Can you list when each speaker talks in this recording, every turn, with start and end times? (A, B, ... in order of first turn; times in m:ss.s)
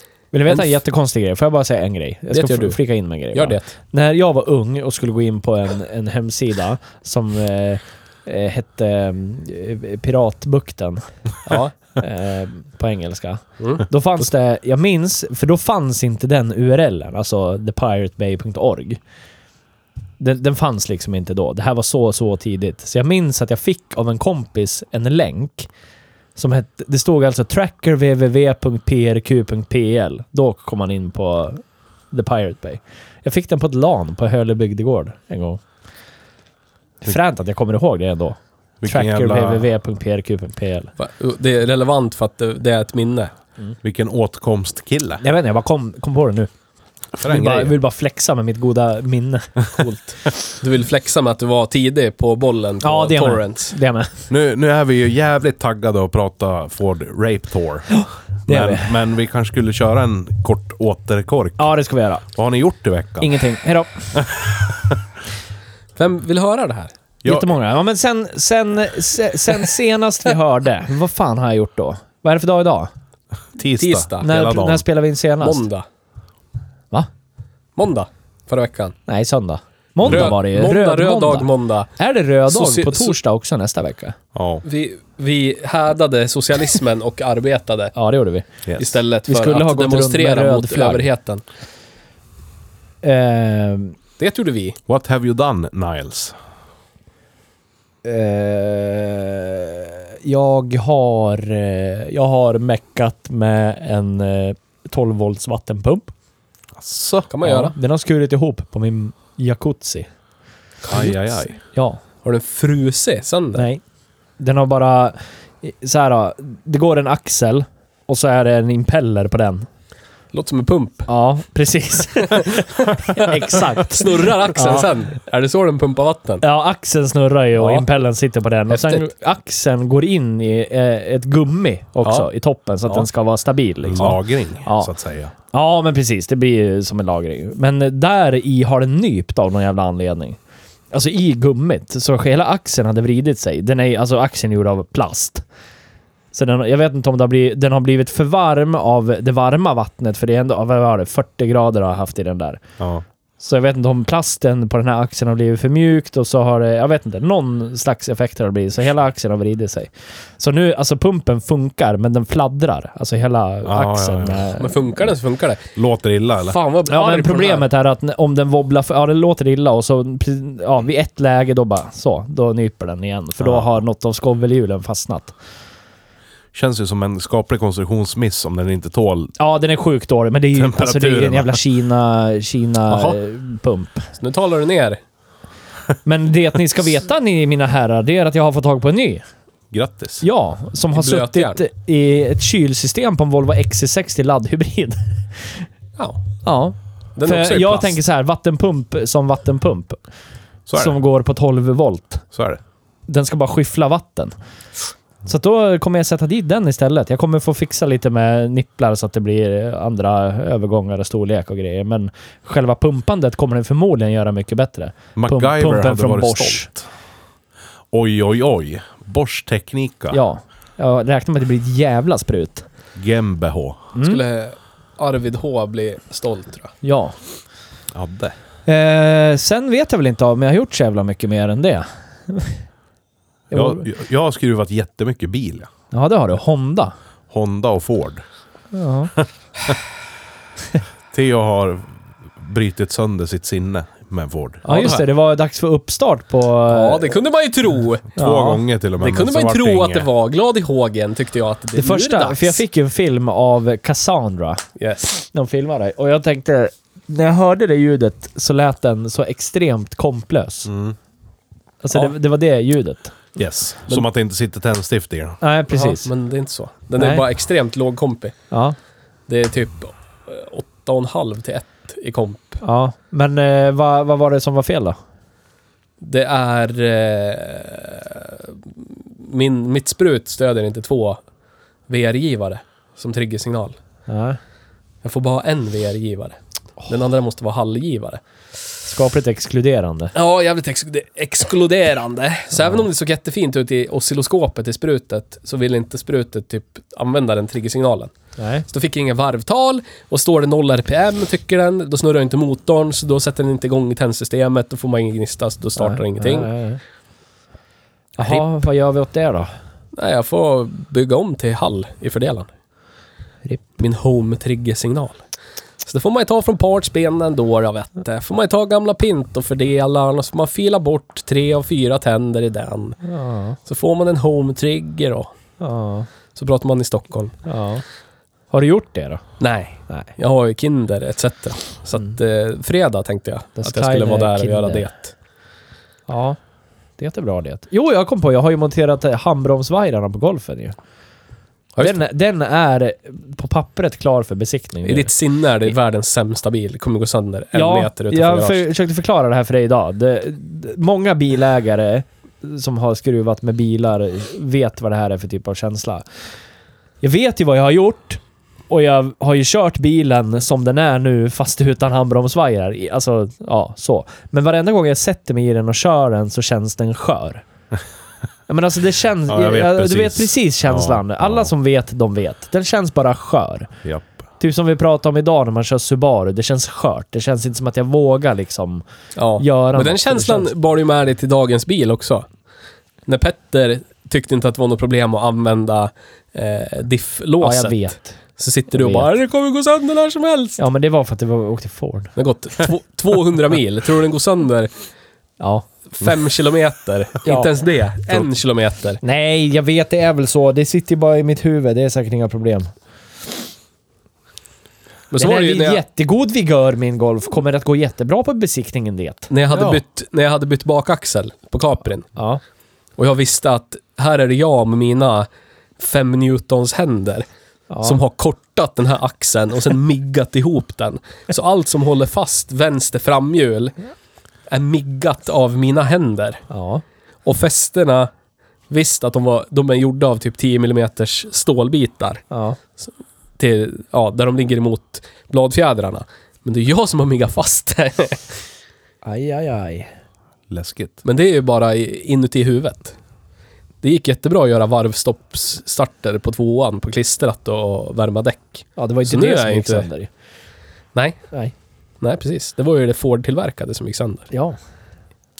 0:00.3-0:11.0 A
0:02.3-0:02.8 B
0:03.3-0:03.7 B
0:11.4-0:11.7 B
0:11.9-0:19.0 A
0:20.2-0:25.7 A
0:26.4-0:35.6 A
0:37.0-0:40.9 A
0:38.8-0:39.7 C
0:41.0-0:43.3 B
0:43.8-0:45.2 C
0:45.2-0:46.5 A
0:47.2-0:47.8 C
0:47.2-0:49.5 A
0:49.8-0:53.7 B
0:52.8-0:54.2 A
0:54.3-0:57.9 C
0:57.9-0:58.9 A
0:58.5-1:01.7 C
1:01.6-1:02.2 A
1:02.3-1:03.3 C
1:03.2-1:04.1 A
1:04.1-1:05.0 C
1:06.0-1:06.9 B
1:07.2-1:07.5 C
1:07.2-1:12.9 A
1:13.6-1:14.8 C
1:13.8-1:14.4 B
1:14.2-1:15.6 A
1:15.4-1:15.8 B
1:17.8-1:19.0 B
1:19.1-1:24.2 A
1:20.0-1:20.3 C
1:20.0-1:21.9 B
1:22.5-1:23.2 B
1:24.3-1:24.6 C
1:24.6-1:27.9 B
1:27.9-1:28.4 A
1:28.6-1:29.0 C
1:28.8-1:31.4 B
1:29.3-1:31.1 A
1:33.0-1:34.0 A
1:34.2-1:34.8 B
1:34.9-1:36.4 C
1:38.0-1:46.1 A
1:46.8-1:47.3 C
1:47.3-1:47.7 B
1:47.4-1:50.1 A
1:50.8-1:51.5 B
1:50.9-1:51.5 C
1:51.7-1:52.0 A
1:52.2-1:53.6 B
1:53.5-1:53.8 A
1:54.4-1:59.7 A
2:00.3-2:01.1 B
2:01.1-2:04.9 A
2:02.3-2:06.4 B
2:06.4-2:14.9 A
2:07.6-2:07.8 B
2:08.7-2:09.1 B
2:13.8-2:15.3 C
2:15.5-2:20.4 A
2:20.9-2:25.4 A
2:26.3-2:32.6 A
2:32.8-2:33.0 C
2:33.4-2:44.7 A
2:43.6-2:44.5 C
2:44.5-2:45.6 B
2:45.8-2:46.6 C
2:46.5-2:47.7 B
2:46.9-2:55.3 A
2:53.4-2:53.8 C
2:56.5-2:59.3 C
2:59.4-3:04.0 A
3:00.5-3:01.6 C
3:02.9-3:03.2 C
3:04.2-3:05.0 B
3:06.0-3:09.2 A
3:09.7-3:10.2 C
3:10.2-3:15.6 A
3:10.9-3:11.6 B
3:16.0-3:16.2 B
3:16.4-3:20.0 A
3:17.2-3:18.0 B
3:20.7-3:21.0 C
3:20.8-3:22.2 A
3:22.3-3:22.6 C
3:23.1-3:24.3 A
3:25.2-3:36.7 A
3:35.2-3:36.9 C
3:37.9-3:40.2 C
3:40.1-3:42.6 A
3:42.9-3:43.9 C
3:43.9-3:44.2 A
3:44.0-3:46.7 B
3:46.8-3:47.1 A
3:47.9-3:48.3 C
3:48.6-3:52.6 A
3:53.5-3:53.8 A
3:53.5-3:55.7 C
3:55.9-3:56.9 A
3:57.3-3:58.2 C
3:58.7-3:59.1 A
4:01.1-4:04.6 C
4:04.6-4:05.1 B
4:04.6-4:07.2 A
4:06.7-4:08.1 B
4:08.1-4:10.1 C
4:08.2-4:08.6 A
4:09.0-4:12.6 B
4:11.8-4:14.6 A
4:14.8-4:15.2 B
4:15.2-4:20.7 A
4:20.6-4:21.0 C
4:21.8-4:23.1 A
4:23.4-4:25.4 C
4:25.4-4:26.1 A
4:25.7-4:28.4 B
4:27.0-4:27.2 A
4:28.5-4:28.8 A
4:29.3-4:32.6 B
4:32.6-4:35.0 A
4:36.0-4:41.2 B
4:41.9-4:43.8 B
4:44.1-4:44.4 A
4:45.0-4:48.2 B
4:48.8-4:50.1 A
4:50.1-4:58.1 B
4:58.4-4:58.6 A
4:58.7-5:06.5 B
5:05.8-5:06.8 A
5:08.2-5:09.5 A
5:08.2-5:08.4 B
5:09.9-5:12.5 B
5:13.8-5:15.2 B
5:15.8-5:23.0 B
5:23.0-5:23.6 A
5:23.6-5:25.3 B
5:25.6-5:26.1 A
5:26.3-5:27.3 B
5:27.4-5:27.8 A
5:28.5-5:29.2 A
5:29.4-5:35.1 B
5:33.6-5:34.9 A
5:36.1-5:36.4 A
5:37.0-5:40.8 A
5:41.8-5:45.1 A
5:44.8-5:48.6 B
5:47.5-5:56.0 A
5:57.0-6:07.4 A
6:08.5-6:13.7 A
6:09.3-6:11.5 C
6:13.8-6:14.1 C
6:14.4-6:18.8 A
6:19.2-6:22.3 B
6:19.4-6:20.5 A
6:23.1-6:30.6 B
6:27.4-6:28.2 A
6:28.7-6:29.1 A
6:30.6-6:32.1 A
6:32.2-6:34.7 B
6:35.4-6:35.6 A
6:36.0-6:39.0 B
6:37.2-6:37.5 A
6:39.0-6:42.7 A
6:45.1-6:45.8 B
6:45.2-6:49.3 A
6:49.3-6:52.1 B
6:49.5-6:49.8 C
6:52.2-6:52.4 A
6:53.0-6:55.3 B
6:55.8-6:57.2 B
6:57.7-6:58.0 A
6:57.8-7:03.8 B
7:04.5-7:06.4 B
7:06.5-7:06.8 A
7:07.2-7:08.1 B
7:08.7-7:12.2 B
7:12.3-7:12.6 A
7:12.8-7:18.2 B
7:19.0-7:19.9 A
7:20.5-7:21.0 C
7:21.0-7:22.9 B
7:23.8-7:29.9 B
7:28.8-7:30.1 A
7:30.9-7:31.2 B
7:32.0-7:34.3 B
7:34.3-7:34.6 A